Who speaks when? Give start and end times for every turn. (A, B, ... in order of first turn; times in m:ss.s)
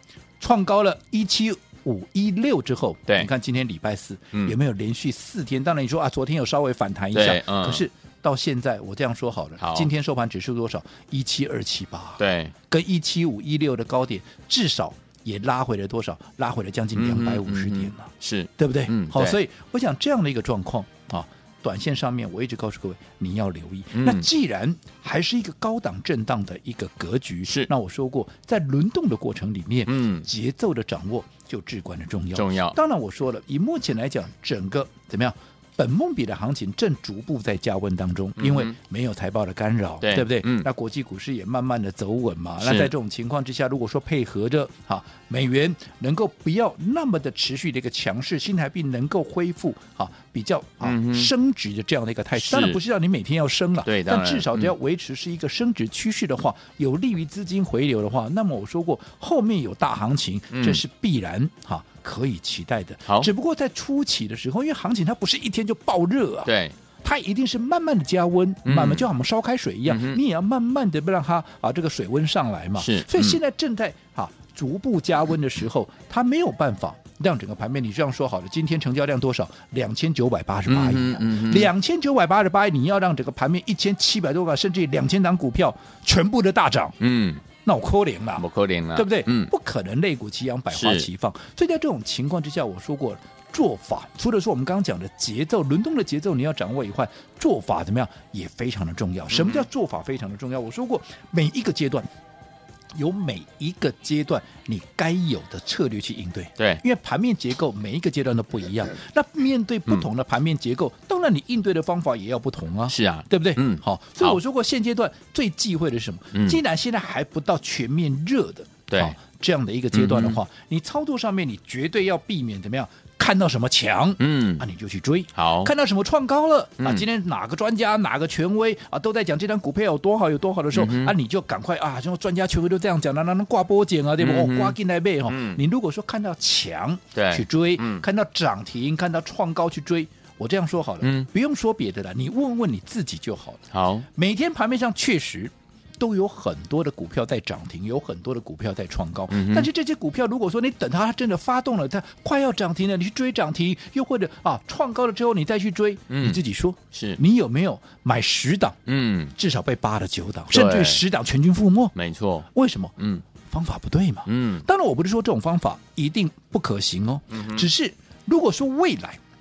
0:00.4-1:06.5 A
0:07.1-0:07.8 B
0:09.6-0:09.9 B
0:12.2-0:12.5 B
0:16.9-0:19.4 B
0:23.9-0:24.2 B
0:29.8-0:30.3 B
0:32.3-0:32.8 B
0:38.4-0:38.7 B
0:40.0-0:40.7 B
0:42.6-0:42.9 B
0:50.8-0:51.3 B
0:52.4-0:52.8 B
0:53.8-0:54.7 B
1:00.5-1:00.8 B
1:06.4-1:06.7 B
1:07.0-1:27.0 A
1:08.6-1:09.1 B
1:09.9-1:10.2 B
1:12.8-1:13.4 B
1:20.7-1:21.7 B
1:27.0-1:27.4 B
1:27.6-1:42.1 A
1:28.4-1:29.5 B
1:30.7-1:31.1 B
1:39.3-1:39.6 B
1:42.9-2:23.6 A
1:52.9-1:54.4 B
1:56.3-1:56.6 B
1:58.9-1:59.2 B
1:59.9-2:00.4 B
2:04.2-2:04.6 B
2:05.3-2:05.7 B
2:06.8-2:07.0 B
2:10.7-2:11.1 B
2:14.2-2:14.8 B
2:15.3-2:15.6 B
2:17.1-2:18.0 B
2:21.0-2:21.3 B
2:23.7-2:24.1 B
2:24.1-2:38.8 A
2:29.3-2:29.7 B
2:36.1-2:36.4 B
2:36.9-2:37.2 B
2:38.9-2:39.3 B
2:39.4-2:41.9 A
2:40.5-2:41.0 B
2:41.9-2:42.5 B
2:42.5-2:49.2 A
2:43.0-2:43.2 B
2:44.2-2:44.6 B
2:47.3-2:47.7 B